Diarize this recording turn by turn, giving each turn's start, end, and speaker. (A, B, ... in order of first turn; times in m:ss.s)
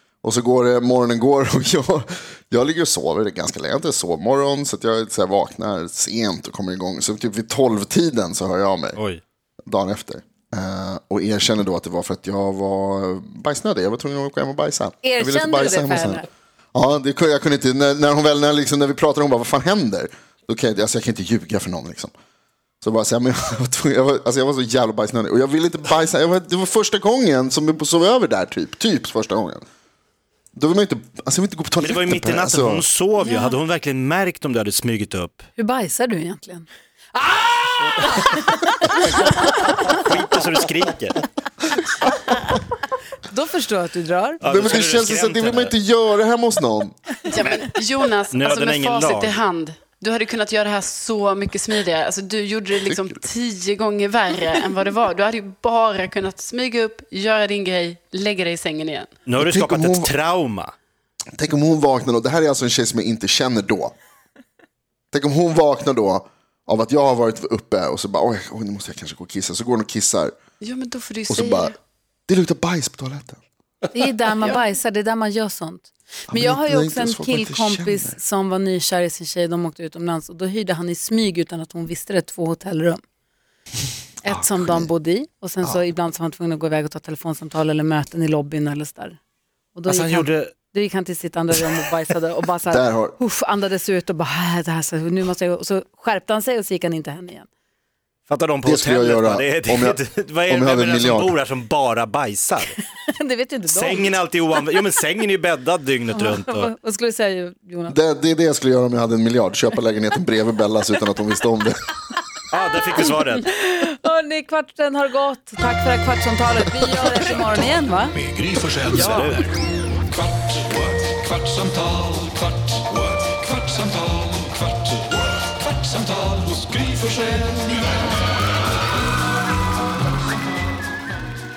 0:00.2-0:09.0 A
0:09.0-0:09.2 B
0:09.7-0:22.1 A
0:15.0-0:16.2 C
0:22.8-0:29.6 A
0:30.6-0:32.8 A
0:31.8-0:35.4 B
0:33.2-0:33.5 D
0:35.6-0:40.0 C
0:39.2-0:41.2 B
0:43.2-0:44.4 C
0:44.4-0:45.7 B
0:44.4-0:47.0 A
0:47.2-0:59.2 D
0:48.3-0:49.4 B
0:59.2-1:00.7 B
0:59.4-1:00.1 A
1:01.3-1:03.9 A
1:05.1-1:10.3 A
1:10.6-1:11.7 D
1:11.3-1:11.7 A
1:12.3-1:13.4 A
1:13.9-1:23.0 C
1:16.3-1:18.2 A
1:24.2-1:29.2 C
1:24.2-1:24.9 A
1:29.7-1:37.5 C
1:29.9-1:30.5 B
1:32.7-1:33.2 A
1:38.3-1:42.8 B
1:38.6-1:41.4 A
1:43.1-1:44.1 C
1:43.7-1:46.7 B
1:46.1-1:48.0 C
1:47.9-1:51.8 A
1:52.5-1:53.4 B
1:53.4-1:58.1 C
1:57.5-1:59.5 E
1:58.9-1:59.4 B
2:00.7-2:02.3 E
2:03.2-2:04.4 E
2:05.9-2:07.6 E